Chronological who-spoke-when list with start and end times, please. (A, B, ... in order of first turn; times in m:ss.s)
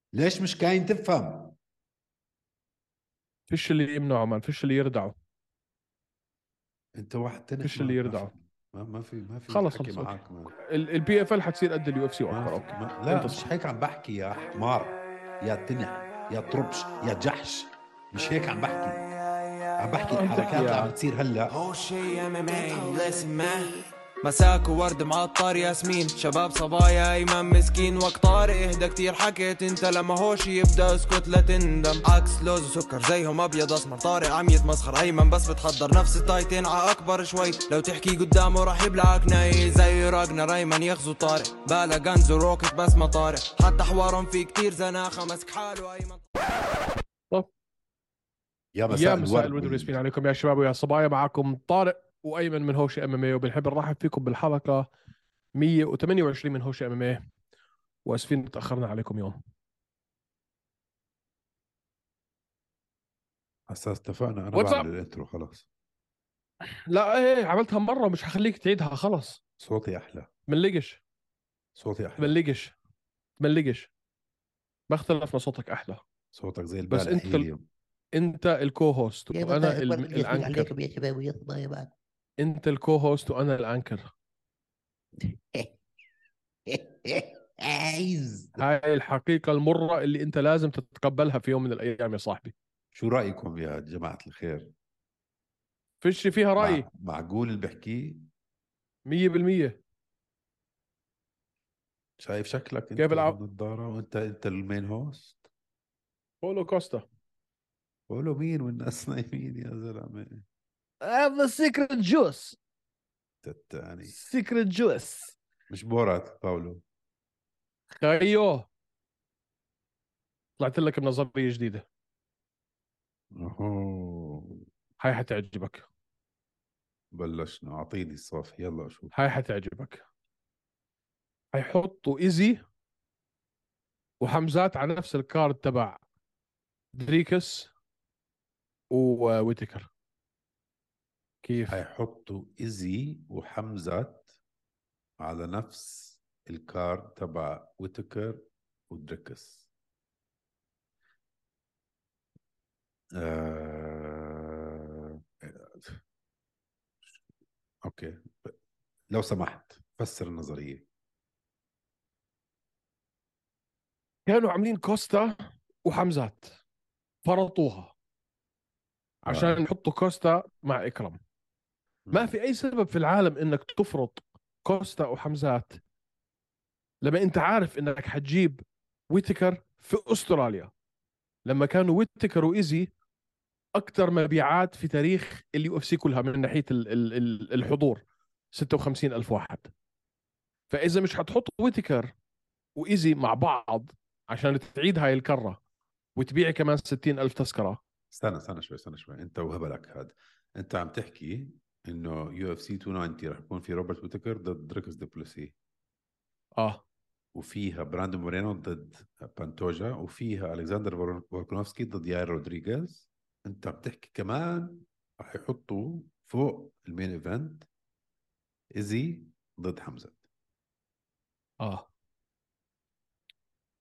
0:00.1-0:01.6 A
0:03.5-0:05.1 B
0:07.0-0:10.6 A
0:07.6-0:08.3 B
0:09.5-0:13.4 B
0:12.3-0:19.0 A
0:19.8-0:21.5 A
0:20.0-0:20.9 B
0:21.5-0:46.2 C
0:48.7-0:50.0 A
0:48.9-0:54.9 B
0:55.5-0:57.2 B
0:58.0-0:59.4 B
1:03.7-1:05.7 A
1:04.5-1:04.8 B
1:06.7-1:09.4 B
1:09.6-1:10.3 A
1:10.5-1:11.0 B
1:11.8-1:12.4 A
1:12.2-1:12.7 B
1:13.4-1:13.9 B
1:14.9-1:16.0 B
1:16.3-1:17.6 A
1:16.9-1:17.5 B
1:18.1-1:20.7 B
1:19.3-1:21.9 D
1:22.4-1:24.1 B
1:26.7-1:28.6 A
1:28.6-1:32.5 B
1:32.9-1:34.7 A
1:36.0-1:36.9 B
1:36.6-1:38.2 A
1:39.1-1:39.8 B
1:42.2-1:45.5 A
1:43.0-1:43.4 B
1:46.4-1:47.0 B
1:48.1-1:50.4 A
1:51.0-1:52.6 B
1:53.4-1:54.2 A
1:54.1-1:55.3 B
1:55.7-1:56.8 A
1:57.9-1:58.7 B
2:00.6-2:01.8 B
2:03.3-2:04.6 A
2:05.0-2:05.8 B
2:07.1-2:09.1 A
2:09.1-2:10.0 B
2:11.5-2:12.6 B
2:14.2-2:16.0 B
2:16.9-2:17.7 B
2:18.9-2:19.9 B
2:21.4-2:21.8 B
2:21.7-2:24.3 A
2:25.2-2:29.7 A
2:33.1-2:36.0 A
2:37.8-2:38.5 A
2:39.1-2:40.8 A
2:44.2-2:46.6 B
2:47.2-2:47.9 B
2:49.2-2:51.2 B
2:49.3-2:49.6 A
2:52.0-2:52.3 A
2:52.1-2:55.8 B
2:57.0-3:00.7 B
3:01.4-3:02.9 B
3:03.8-3:09.7 B
3:10.7-3:12.1 B
3:12.7-3:15.6 B
3:16.2-3:17.8 B
3:18.1-3:25.5 A
3:26.6-3:26.8 B
3:27.3-3:37.7 A
3:38.7-3:40.2 A
3:41.6-3:41.9 B